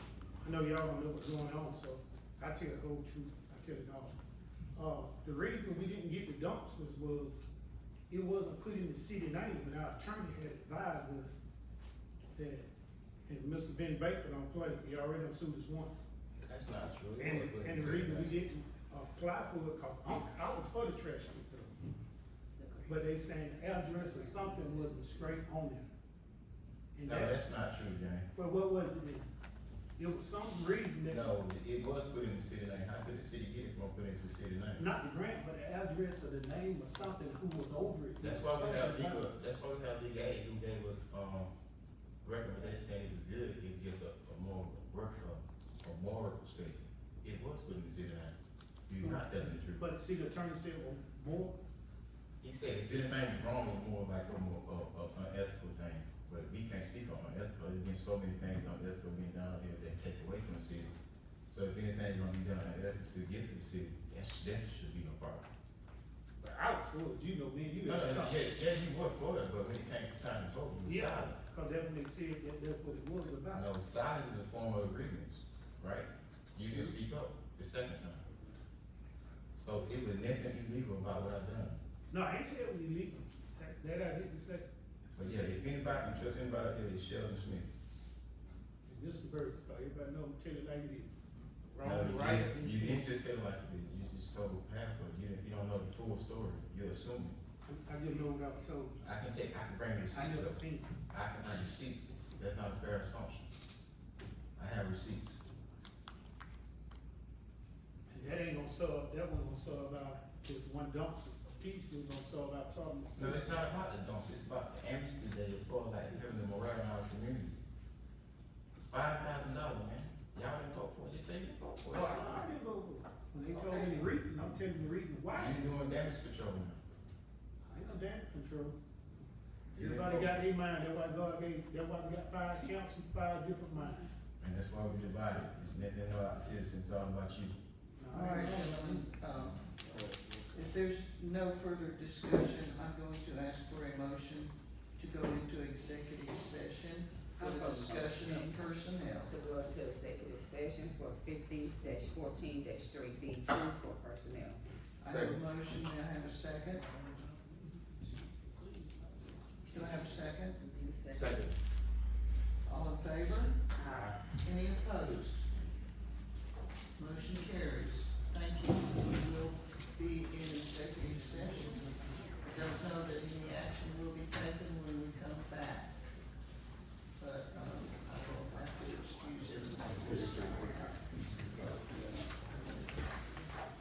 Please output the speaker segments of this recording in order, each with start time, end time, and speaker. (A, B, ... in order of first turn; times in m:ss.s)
0:00.4-0:04.2 A
0:04.7-0:07.4 A
0:08.1-0:11.4 A
0:12.3-0:12.7 A
0:13.3-0:16.0 A
0:16.4-0:18.4 B
0:17.2-0:21.8 A
0:22.6-0:23.0 C
0:22.8-0:25.9 A
0:23.6-0:25.4 C
0:26.9-0:27.4 A
0:27.0-0:28.3 B
0:28.3-0:29.3 A
0:30.0-0:31.3 A
0:31.1-0:34.9 B
0:34.8-0:39.2 A
0:38.2-0:41.5 B
0:42.2-0:48.4 B
0:48.9-0:49.8 B
0:49.0-0:51.6 A
0:52.4-1:00.9 B
1:01.5-1:05.5 B
1:06.4-1:08.4 A
1:07.8-1:11.4 B
1:10.8-1:13.6 A
1:13.5-1:18.2 B
1:16.6-1:16.9 A
1:19.6-1:21.8 B
1:22.1-1:24.7 A
1:25.1-1:27.7 B
1:28.8-1:31.1 A
1:31.7-1:33.0 A
1:31.8-1:37.4 B
1:37.6-1:39.0 A
1:39.0-1:43.5 B
1:40.1-1:40.9 A
1:44.6-1:45.3 B
1:48.1-1:53.6 A
1:53.1-1:57.6 B
1:58.9-2:02.5 B
2:01.9-2:05.7 A
2:03.5-2:04.0 D
2:05.3-2:06.8 B
2:07.6-2:08.8 A
2:09.7-2:10.4 B
2:09.8-2:14.1 A
2:14.4-2:17.5 B
2:18.0-2:19.0 A
2:18.1-2:19.8 D
2:20.5-2:29.3 D
2:27.4-2:28.6 C
2:29.2-2:34.6 C
2:35.0-2:36.8 D
2:35.0-2:35.3 B
2:36.9-2:38.1 A
2:39.7-2:40.6 D
2:40.5-2:41.3 C
2:41.1-2:41.5 B
2:42.6-2:43.7 D
2:43.7-2:44.2 C
2:44.3-2:45.5 D
2:47.0-2:56.0 D
2:57.2-3:01.0 D